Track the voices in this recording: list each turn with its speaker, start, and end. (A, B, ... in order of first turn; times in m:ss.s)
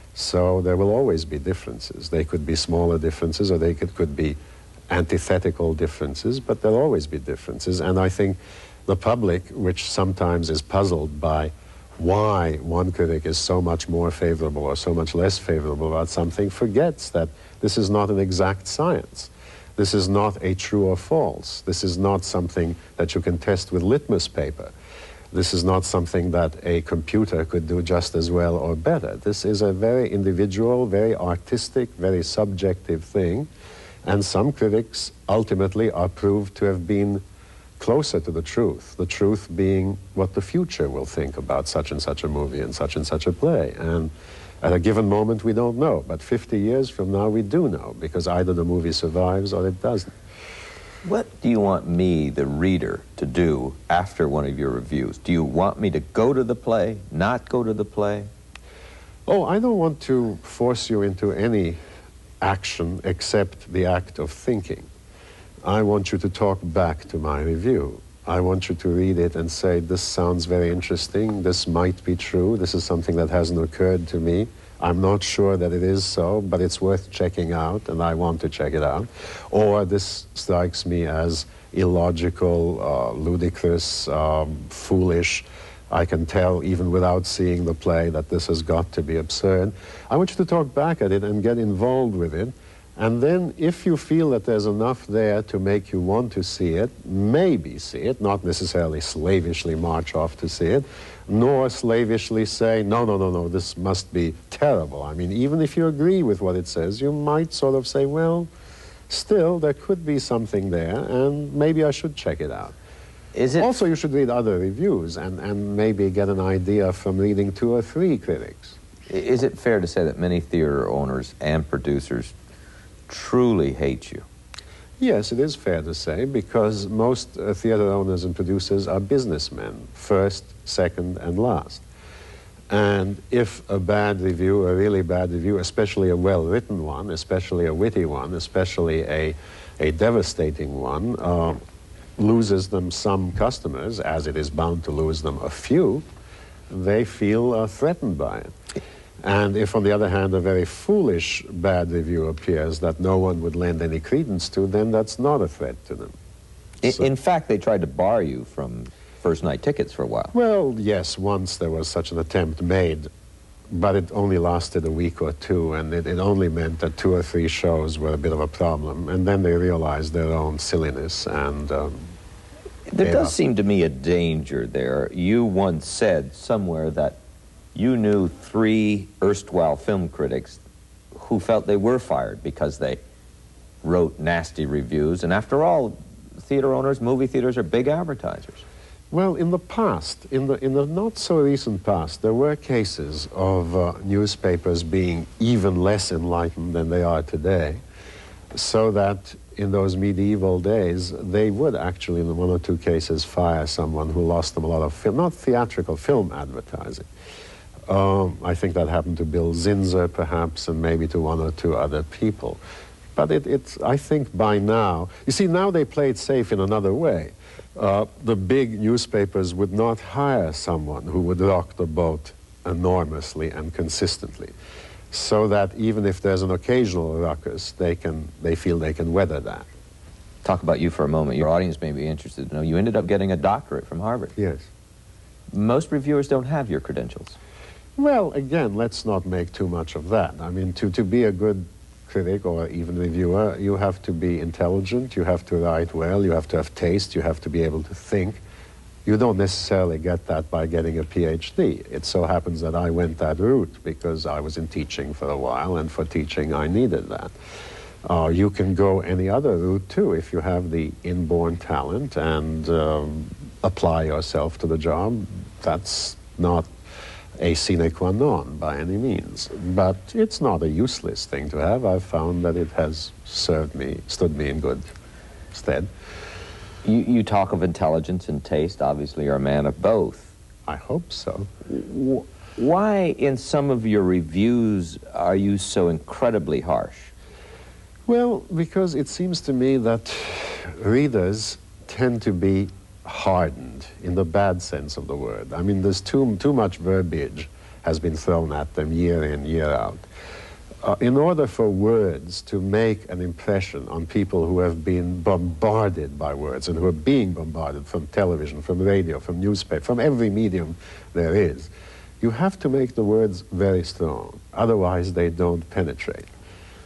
0:00.1-0:04.4 A
0:04.9-0:24.7 A
0:25.3-0:33.5 A
0:34.0-0:37.2 A
0:37.8-0:50.1 A
0:51.0-0:58.3 B
0:59.3-1:01.8 A
1:02.4-1:04.9 A
1:05.6-1:48.5 A
1:49.1-1:52.8 A
1:53.3-1:53.7 B
1:53.6-1:58.8 A
1:59.1-2:02.3 B
2:03.1-2:04.2 B
2:05.0-2:11.8 A
2:12.7-2:21.6 A
2:22.2-2:26.0 A
2:26.7-2:28.5 A
2:29.2-2:36.1 A
2:36.8-2:40.3 B
2:40.3-2:43.1 A
2:43.7-2:52.1 A
2:52.9-2:57.2 B
2:53.0-2:53.4 A
2:57.8-3:00.6 B
3:01.2-3:03.0 B
3:03.8-3:08.6 B
3:09.1-3:17.8 A
3:18.5-3:27.1 A
3:27.9-3:32.6 A
3:33.2-3:44.5 A
3:45.1-3:49.7 A
3:50.4-3:54.3 B
3:54.4-3:54.7 A
3:55.5-3:57.4 B
3:58.0-4:08.4 A
4:09.0-4:17.3 A
4:18.0-4:26.7 A
4:27.4-4:34.8 A
4:35.5-4:35.9 A
4:36.8-4:40.3 B
4:40.7-4:41.5 A
4:41.7-4:47.1 B
4:48.1-5:00.0 A
5:00.8-5:11.7 A
5:12.2-5:16.3 A